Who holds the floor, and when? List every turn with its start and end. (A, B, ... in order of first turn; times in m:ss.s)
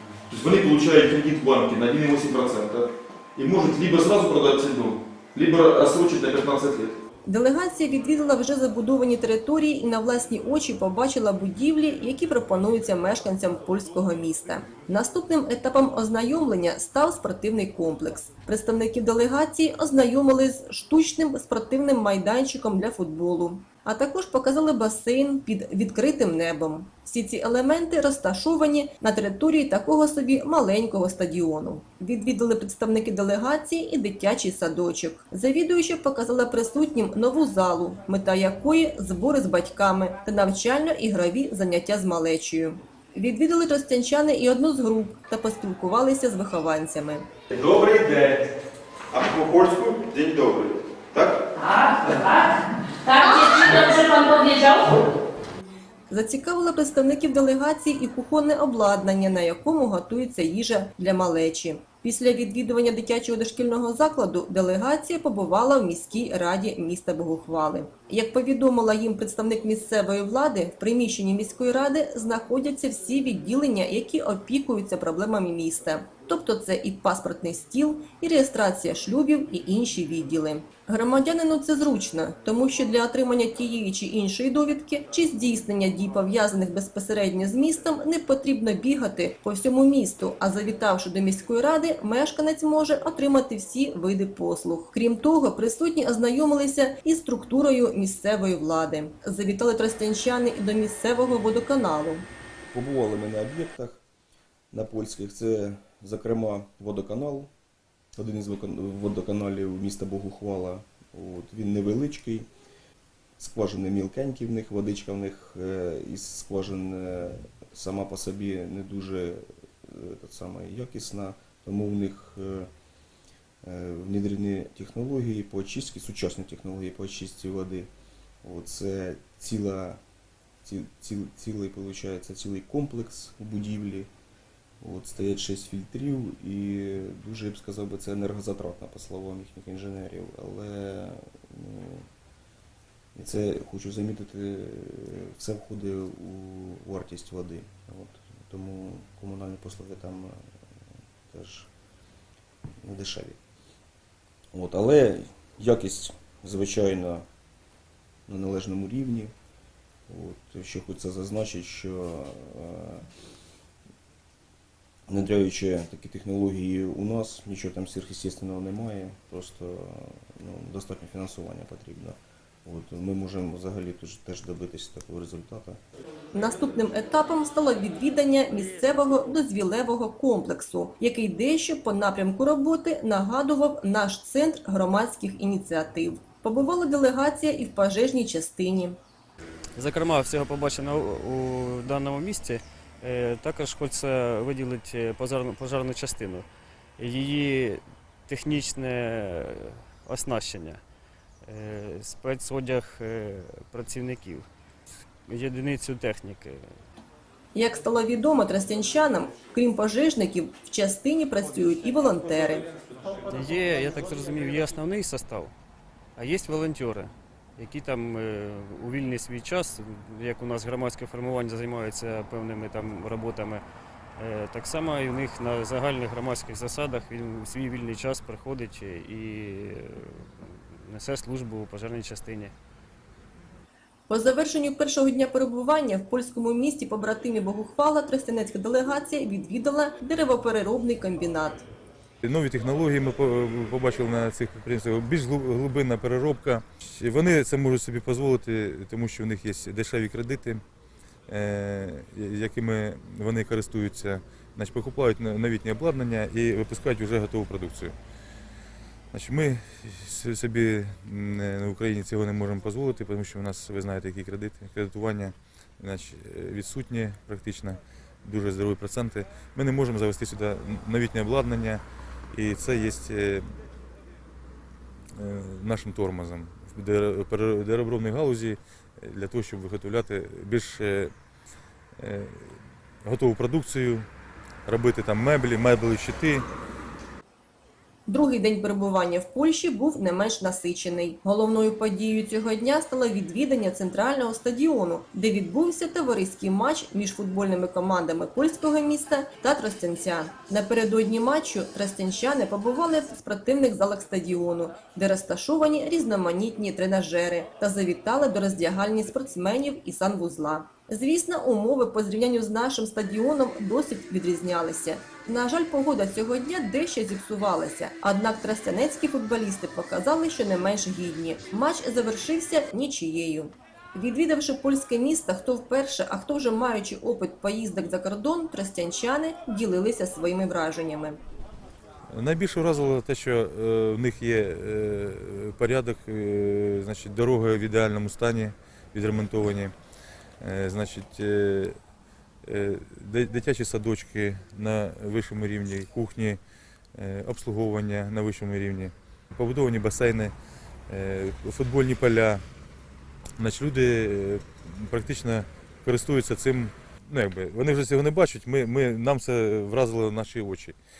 0:00.3-0:07.0 A
0:07.2-0:47.2 B
0:47.5-0:48.4 A
0:49.1-0:51.4 A
0:51.6-0:55.0 C
0:56.1-1:42.3 B
1:42.7-1:44.0 D
1:44.7-1:47.5 D
1:48.2-1:52.5 D
1:53.4-2:02.7 D
2:03.6-2:07.9 D
2:08.4-2:10.0 D
2:10.6-2:14.1 D
2:14.8-2:22.1 D
2:23.2-2:30.4 D
2:31.3-2:31.7 D
2:32.8-2:33.4 D
2:34.5-2:37.2 D
2:38.3-2:39.3 D
2:40.1-2:43.0 D
2:45.1-2:55.8 D
2:56.3-3:09.0 B
3:09.8-3:16.5 E
3:17.0-3:20.8 E
3:21.4-3:24.5 E
3:25.3-3:26.6 E
3:27.5-3:32.7 B
3:33.3-3:35.5 E
3:36.2-3:43.6 E
3:44.2-3:52.5 E
3:54.1-4:01.7 B
4:02.2-4:10.6 F
4:11.3-4:18.0 F
4:19.1-4:33.6 F
4:35.1-4:41.1 F
4:42.0-4:44.1 F
4:44.7-4:46.5 F
4:48.1-5:31.2 B
5:32.1-5:39.7 F
5:40.4-5:41.8 F
5:42.4-5:46.4 F
5:47.0-5:50.3 F
5:50.9-5:52.4 F
5:53.4-6:00.8 F